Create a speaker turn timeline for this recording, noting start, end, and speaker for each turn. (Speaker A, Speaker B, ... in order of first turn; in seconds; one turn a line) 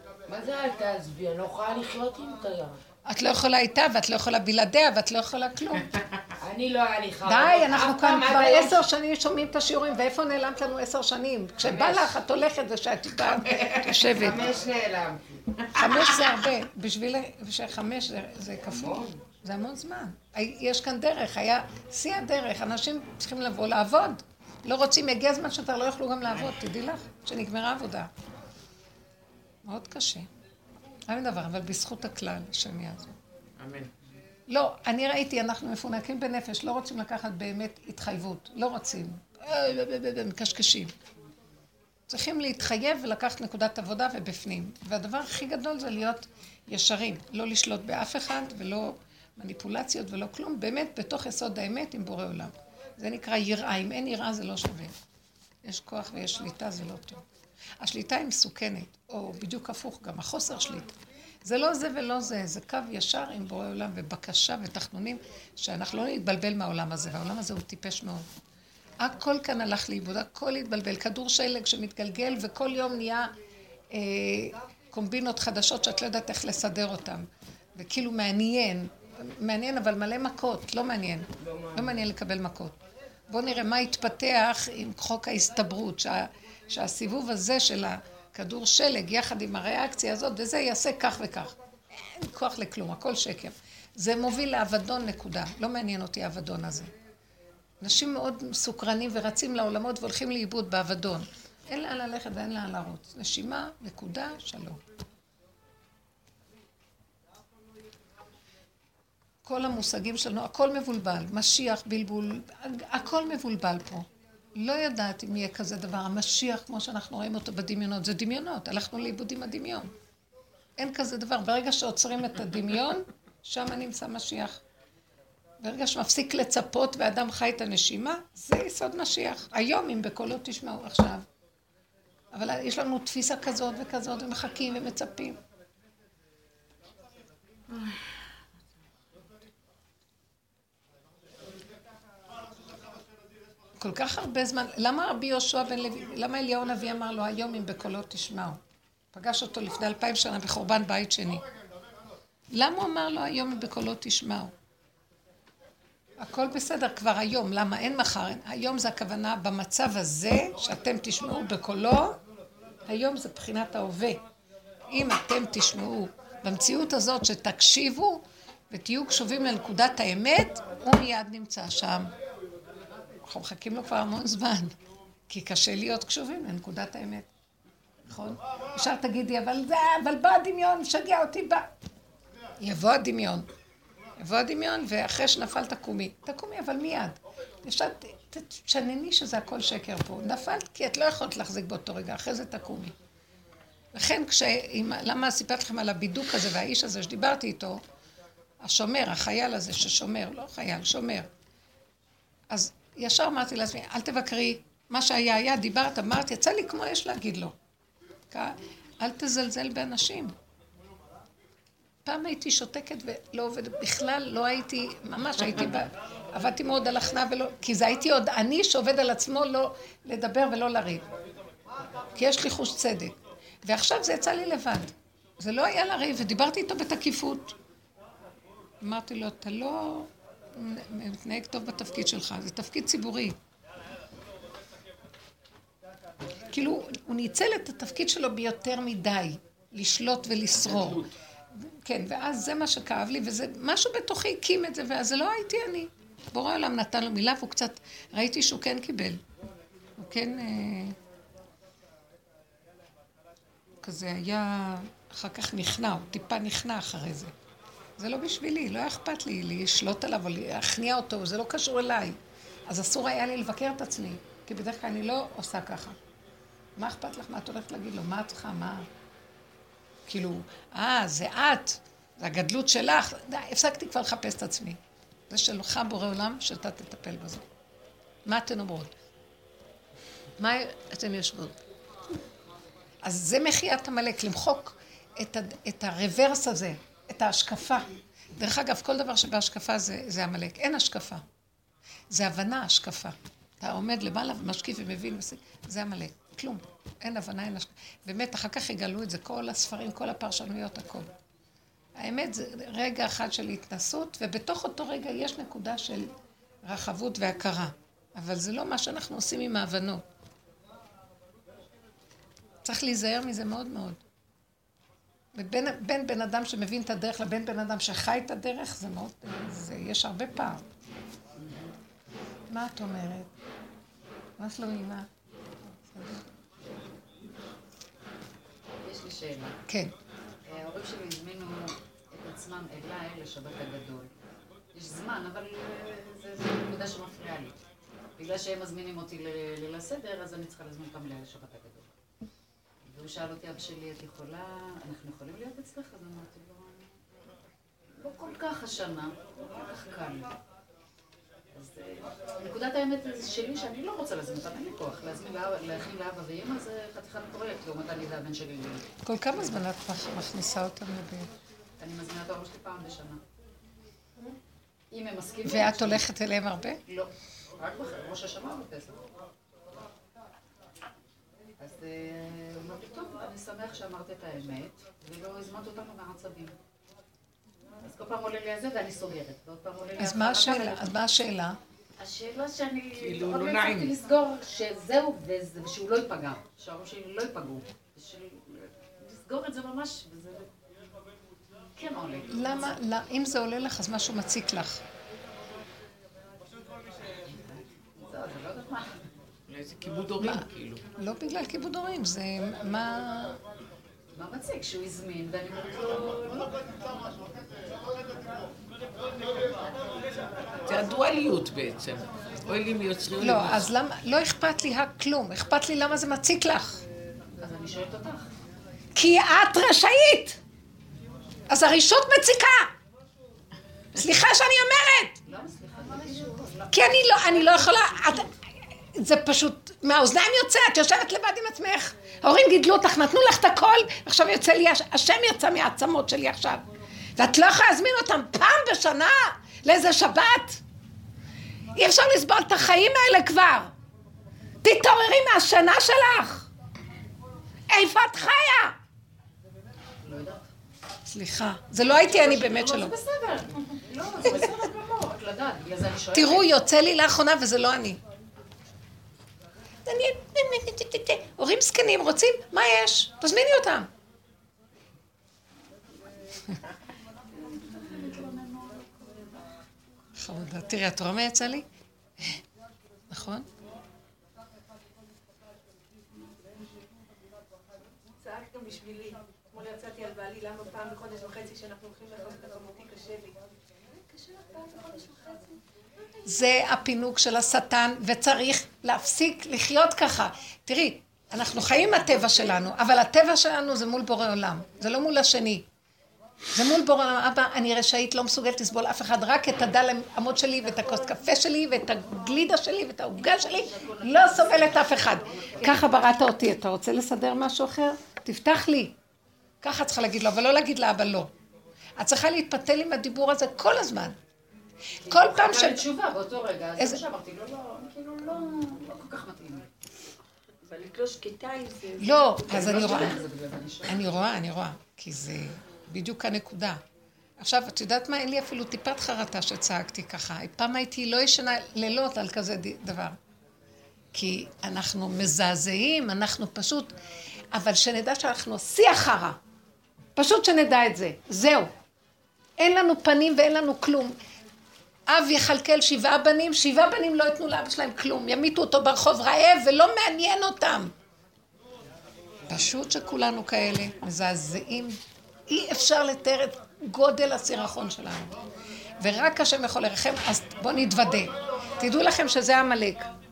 Speaker A: 0.3-2.8
Speaker B: 3.1-5.9
Speaker A: 6.4-8.8
Speaker B: 7.2-14.5
Speaker A: 11.6-12.1
Speaker A: 13.7-15.4
Speaker B: 15.7-28.1
Speaker A: 18.7-19.1
Speaker B: 29.6-30.3
Speaker B: 31.1-33.1
Speaker C: 33.6-33.9
Speaker B: 34.5-40.9
Speaker B: 42.1-54.9
Speaker B: 55.6-57.2
Speaker B: 57.8-60.9
Speaker B: 61.4-68.2
Speaker B: 69.0-73.3
Speaker B: 73.9-82.8
Speaker A: 81.4-82.0
Speaker B: 83.3-96.9
Speaker B: 97.8-104.8
Speaker B: 109.4-119.9
Speaker B: 120.8-124.6
Speaker B: 125.6-131.2
Speaker B: 132.3-135.4
Speaker B: 143.8-148.6
Speaker B: 149.1-151.4
Speaker B: 152.5-154.5
Speaker B: 156.2-162.2
Speaker B: 162.9-164.2
Speaker B: 164.9-172.1
Speaker B: 173.2-174.7
Speaker B: 175.3-177.3
Speaker B: 178.1-181.7
Speaker B: 182.6-183.5
Speaker B: 184.2-192.9
Speaker B: 193.9-197.8
Speaker B: 198.6-201.3
Speaker B: 202.5-207.5
Speaker B: 208.3-210.3
Speaker B: 212.0-221.0
Speaker B: 222.1-227.6
Speaker B: 228.8-233.4
Speaker B: 236.5-249.2
Speaker C: 240.6-241.1
Speaker B: 250.0-250.9
Speaker B: 253.8-257.3
Speaker B: 258.0-262.1
Speaker B: 262.7-265.9
Speaker B: 266.8-268.9
Speaker B: 270.1-274.8
Speaker B: 275.3-277.4
Speaker B: 278.2-278.9
Speaker B: 280.4-281.6
Speaker B: 283.0-291.2
Speaker B: 292.1-301.1
Speaker B: 302.0-310.1
Speaker B: 312.6-314.0
Speaker B: 315.4-320.6
Speaker D: 321.4-321.7
Speaker B: 322.5-323.3
Speaker B: 324.4-325.1
Speaker B: 325.9-326.2
Speaker D: 328.8-329.6
Speaker B: 329.7-329.9
Speaker D: 330.4-334.2
Speaker D: 334.7-337.6
Speaker D: 338.2-341.9
Speaker D: 342.9-346.9
Speaker D: 348.0-350.4
Speaker D: 351.5-358.9
Speaker B: 359.0-361.3
Speaker D: 361.8-363.2
Speaker D: 364.9-366.1
Speaker B: 365.4-366.8
Speaker D: 366.9-369.1
Speaker D: 371.6-376.5
Speaker D: 377.8-380.9
Speaker B: 380.0-381.6
Speaker D: 382.0-390.5
Speaker C: 383.0-384.0
Speaker D: 391.8-392.8
Speaker B: 392.3-394.8
Speaker D: 397.0-399.0
Speaker C: 399.5-400.8
Speaker B: 401.0-403.4
Speaker D: 404.1-407.2
Speaker C: 410.6-413.7
Speaker B: 413.2-416.8
Speaker D: 417.4-418.3
Speaker B: 418.9-420.4
Speaker B: 421.5-422.7
Speaker B: 423.9-425.2
Speaker D: 425.2-428.3
Speaker B: 426.7-428.3
Speaker B: 428.9-436.6
Speaker B: 437.2-440.6
Speaker B: 441.7-443.7
Speaker B: 444.6-446.4
Speaker B: 447.7-448.8
Speaker D: 450.0-450.5
Speaker B: 451.1-452.9
Speaker D: 451.8-456.6
Speaker B: 456.1-458.0
Speaker B: 459.9-463.9
Speaker D: 467.3-469.7
Speaker B: 470.2-471.6
Speaker B: 473.1-473.5
Speaker E: 478.2-483.4
Speaker E: 483.9-485.6
Speaker B: 486.3-495.6
Speaker B: 496.5-508.9
Speaker D: 503.2-506.0
Speaker B: 509.6-511.3
Speaker B: 512.0-514.1
Speaker D: 515.0-519.7
Speaker B: 515.1-515.9
Speaker B: 516.8-517.0
Speaker F: 520.6-523.2
Speaker B: 522.0-523.2
Speaker D: 522.5-524.1
Speaker B: 523.8-526.8
Speaker B: 527.4-533.1
Speaker B: 534.1-536.9
Speaker B: 537.5-539.4
Speaker B: 540.1-541.7
Speaker B: 542.6-544.1
Speaker B: 545.1-550.9
Speaker B: 552.5-558.4
Speaker B: 559.0-563.1